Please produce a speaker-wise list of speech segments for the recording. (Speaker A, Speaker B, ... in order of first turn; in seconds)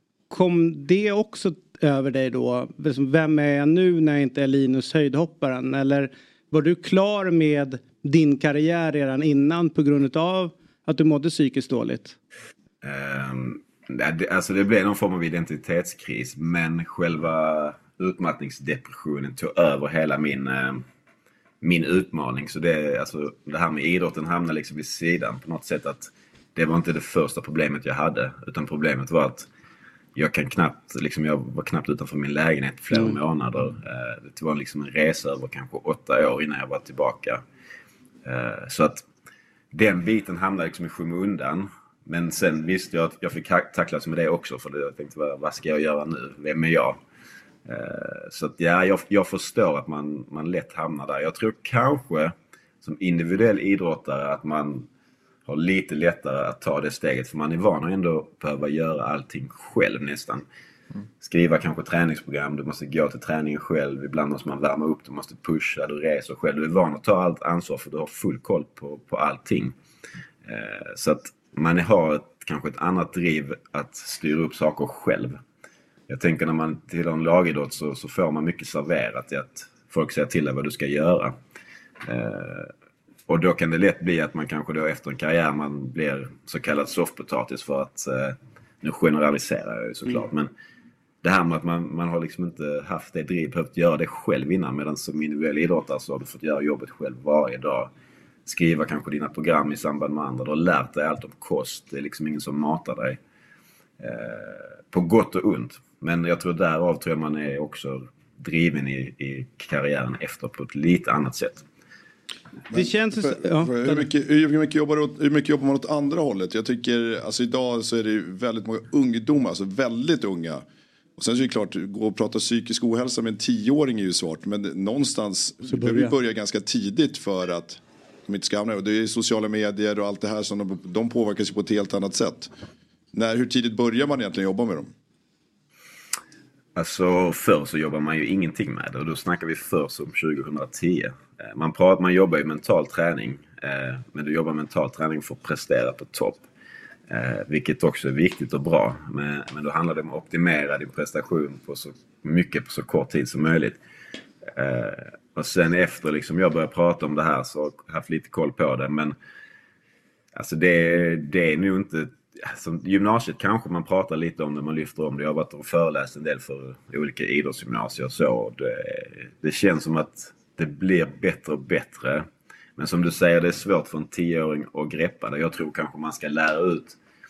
Speaker A: 0.3-12.2, 32.9-33.2, 112.7-114.1, 125.7-126.1
Speaker B: 12.8-20.8, 21.6-29.4, 30.1-37.4, 38.2-39.0, 39.7-47.0, 47.6-54.9, 55.5-60.4, 61.2-69.7, 70.4-75.4, 76.1-81.3, 82.0-82.7, 83.3-90.5, 91.2-97.9, 98.5-103.2, 104.0-111.6, 136.8-146.5, 147.1-153.8, 154.5-159.1, 160.3-172.2, 172.8-177.0
Speaker C: 112.7-120.6, 121.2-132.5, 133.1-134.9